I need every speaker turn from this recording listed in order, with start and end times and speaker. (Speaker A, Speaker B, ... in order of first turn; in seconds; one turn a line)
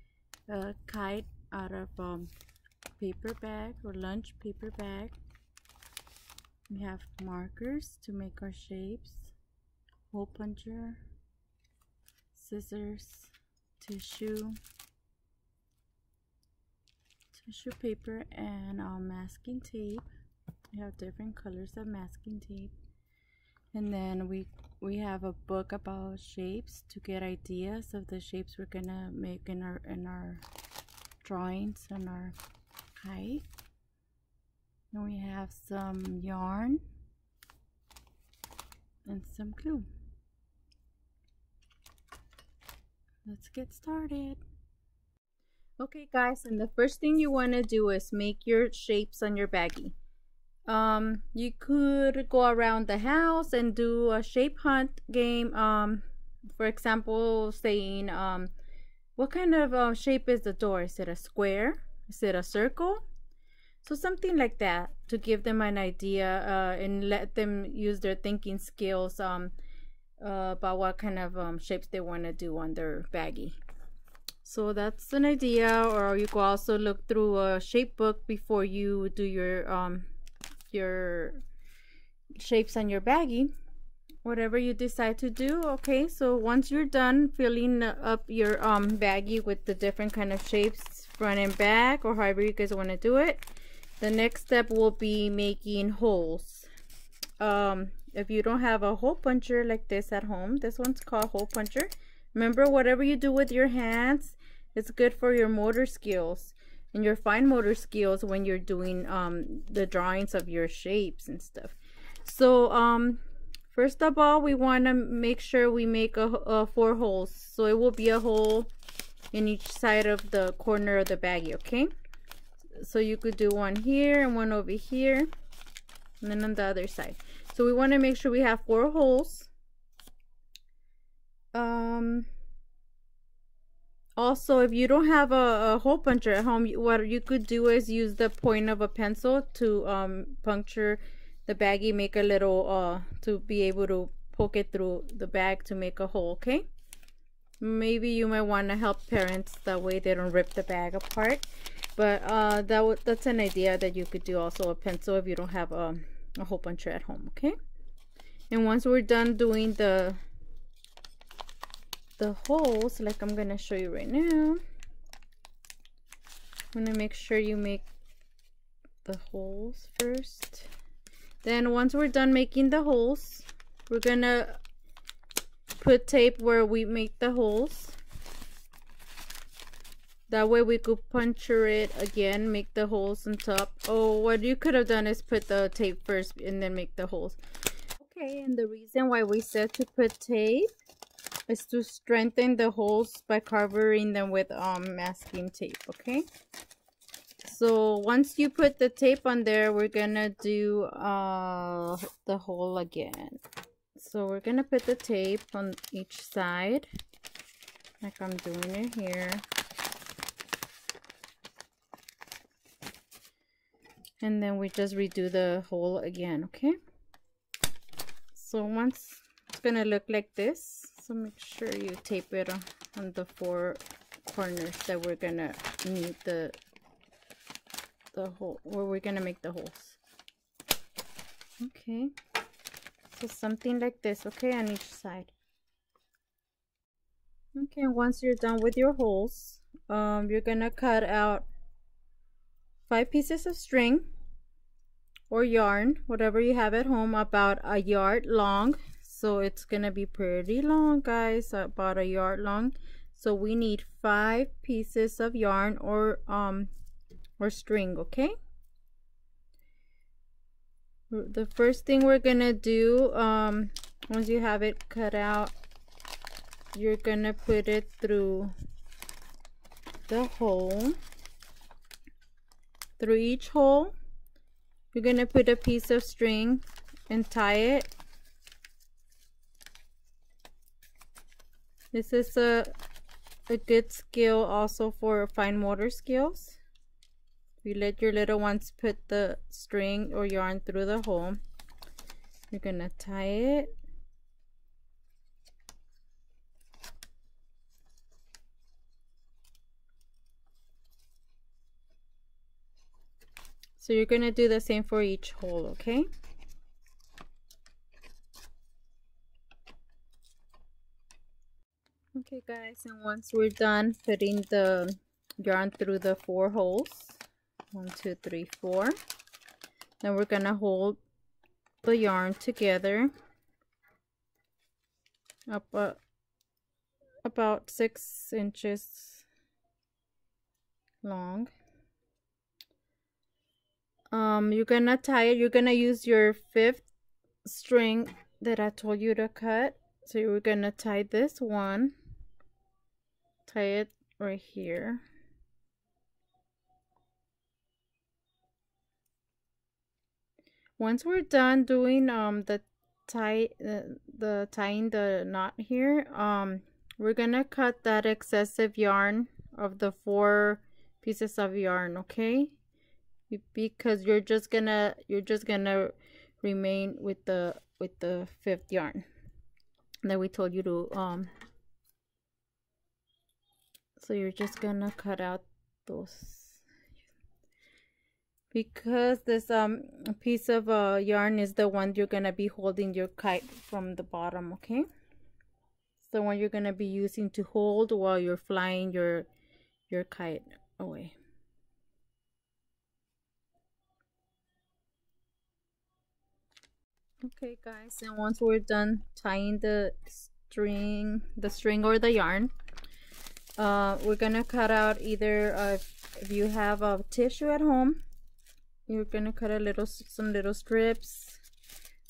Speaker A: 0.5-2.3
Speaker A: 3.0-5.2
Speaker A: 6.7-9.3
Speaker A: 10.1-11.0
Speaker A: 12.3-14.6
Speaker A: 17.3-20.1
Speaker A: 20.7-22.7
Speaker A: 23.7-30.4
Speaker A: 31.2-32.4
Speaker A: 33.0-33.4
Speaker A: 34.9-36.8
Speaker A: 39.0-39.9
Speaker A: 43.2-44.4
Speaker A: 45.8-49.9
Speaker A: 50.7-56.0
Speaker A: 56.5-58.5
Speaker A: 59.2-63.0
Speaker A: 63.8-69.5
Speaker A: 70.2-73.6
Speaker A: 74.4-80.1
Speaker A: 80.7-81.4
Speaker A: 82.3-83.5
Speaker A: 84.2-93.4
Speaker A: 94.0-96.7
Speaker A: 97.4-118.7
Speaker A: 119.3-121.9
Speaker A: 122.8-125.3
Speaker A: 126.2-129.5
Speaker A: 131.5-132.3
Speaker A: 134.2-146.6
Speaker A: 147.6-157.5
Speaker A: 158.5-160.2
Speaker A: 162.2-164.6
Speaker A: 166.7-167.8
Speaker A: 169.0-170.7
Speaker A: 171.4-174.6
Speaker A: 175.8-178.0
Speaker A: 180.3-187.4
Speaker A: 188.0-190.7
Speaker A: 191.5-196.2
Speaker A: 197.4-203.4
Speaker A: 203.9-206.9
Speaker A: 208.0-209.4
Speaker A: 214.2-216.8
Speaker A: 218.3-226.6
Speaker A: 228.1-230.0
Speaker A: 231.6-232.1
Speaker A: 233.1-235.3
Speaker A: 237.5-241.5
Speaker A: 242.9-244.1
Speaker A: 245.3-256.7
Speaker A: 257.4-258.3
Speaker A: 261.1-265.5
Speaker A: 266.7-268.5
Speaker A: 270.1-271.0
Speaker A: 273.0-273.9
Speaker A: 274.9-277.9
Speaker A: 281.9-282.7
Speaker A: 283.5-286.6
Speaker A: 287.6-291.4
Speaker A: 292.5-293.7
Speaker A: 303.8-306.1
Speaker A: 312.1-317.2
Speaker A: 317.7-318.9
Speaker A: 320.0-321.0
Speaker A: 321.8-323.1
Speaker A: 325.5-326.0
Speaker A: 327.2-329.2
Speaker A: 331.0-331.5
Speaker A: 334.1-336.8
Speaker A: 337.4-341.9
Speaker A: 343.4-345.0
Speaker A: 350.8-362.6
Speaker A: 363.3-369.0
Speaker A: 370.0-371.3
Speaker A: 374.0-376.6
Speaker A: 378.5-384.9
Speaker A: 386.0-389.3
Speaker A: 389.9-391.1
Speaker A: 397.2-402.5
Speaker A: 403.6-408.0
Speaker A: 408.9-411.4